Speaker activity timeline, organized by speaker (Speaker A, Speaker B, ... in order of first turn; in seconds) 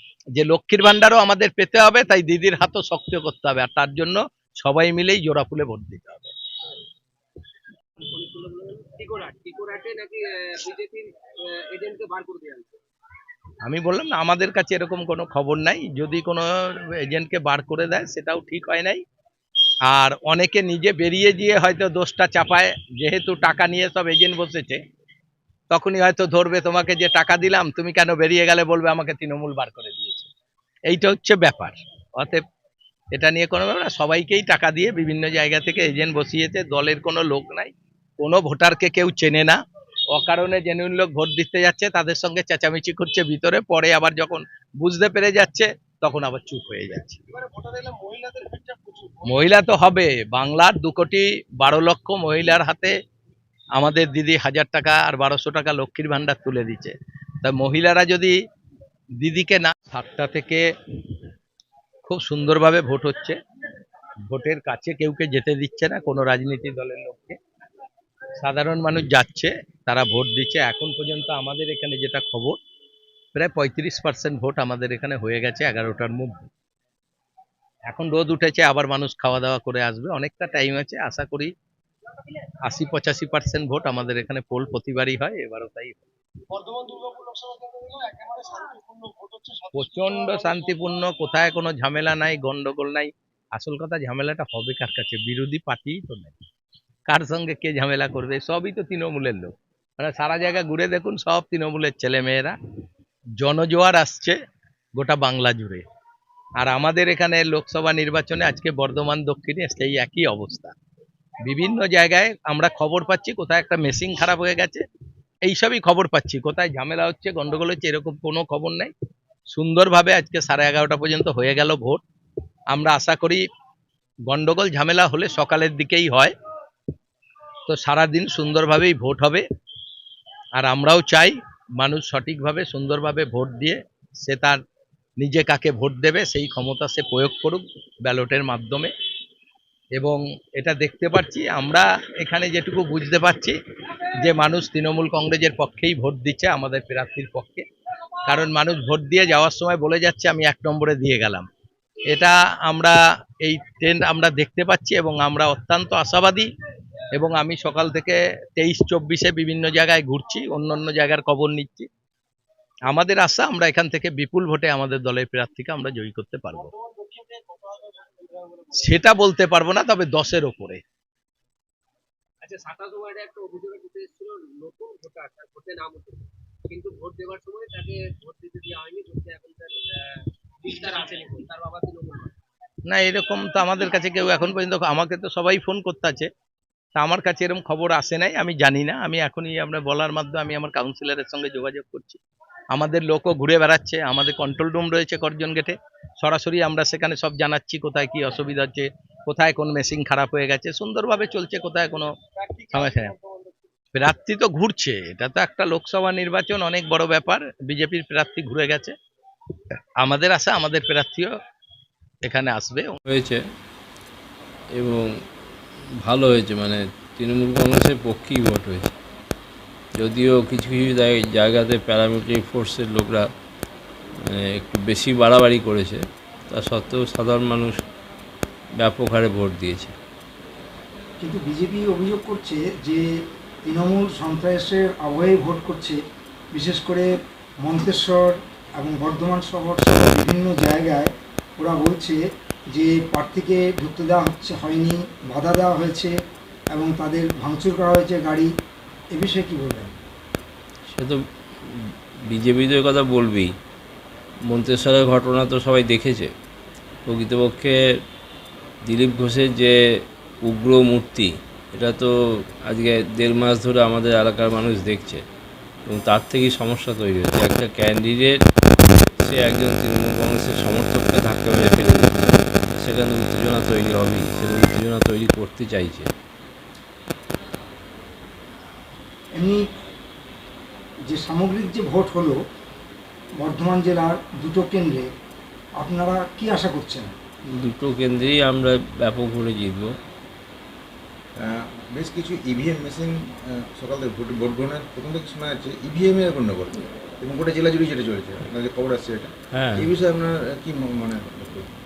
Speaker A: 0.4-6.3, 13.6-19.0, 19.9-24.8, 25.7-30.3, 30.9-32.4, 33.1-39.6, 40.1-47.2, 49.2-52.9, 53.8-58.4, 59.2-60.6, 62.0-63.4, 64.3-67.4, 68.4-72.6, 73.3-76.5, 77.9-81.5, 82.6-86.0, 89.7-96.3, 97.1-102.5, 103.4-104.4, 105.0-105.8, 106.6-110.7, 111.5-114.8, 115.4-118.9, 119.5-122.0, 122.7-123.4, 124.3-126.3, 127.7-129.4, 130.6-134.6, 135.2-138.9, 140.0-143.6, 144.2-147.7, 148.3-151.5, 152.1-156.5, 157.1-161.9, 162.9-166.7, 168.7-170.8, 182.9-186.3, 187.0-192.2, 192.7-202.1, 202.7-203.2, 203.9-208.9, 210.0-211.3, 212.2-213.0
Speaker B: 8.0-12.8, 172.4-182.3
Speaker C: 213.1-213.4, 214.8-215.1, 216.0-218.9, 220.0-223.3, 224.3-227.7, 228.8-229.9, 250.9-253.5, 254.5-256.3, 257.1-257.8, 258.9-259.7, 260.4-262.1, 262.7-265.2, 265.9-268.4, 269.2-276.1, 287.5-289.9, 299.5-299.9
Speaker D: 231.2-233.0, 233.7-236.0, 236.5-237.1, 237.6-242.2, 242.7-246.1, 246.7-248.5, 249.1-249.9, 279.4-279.6, 281.1-282.4, 283.4-285.1, 285.8-287.1
Speaker E: 291.4-301.7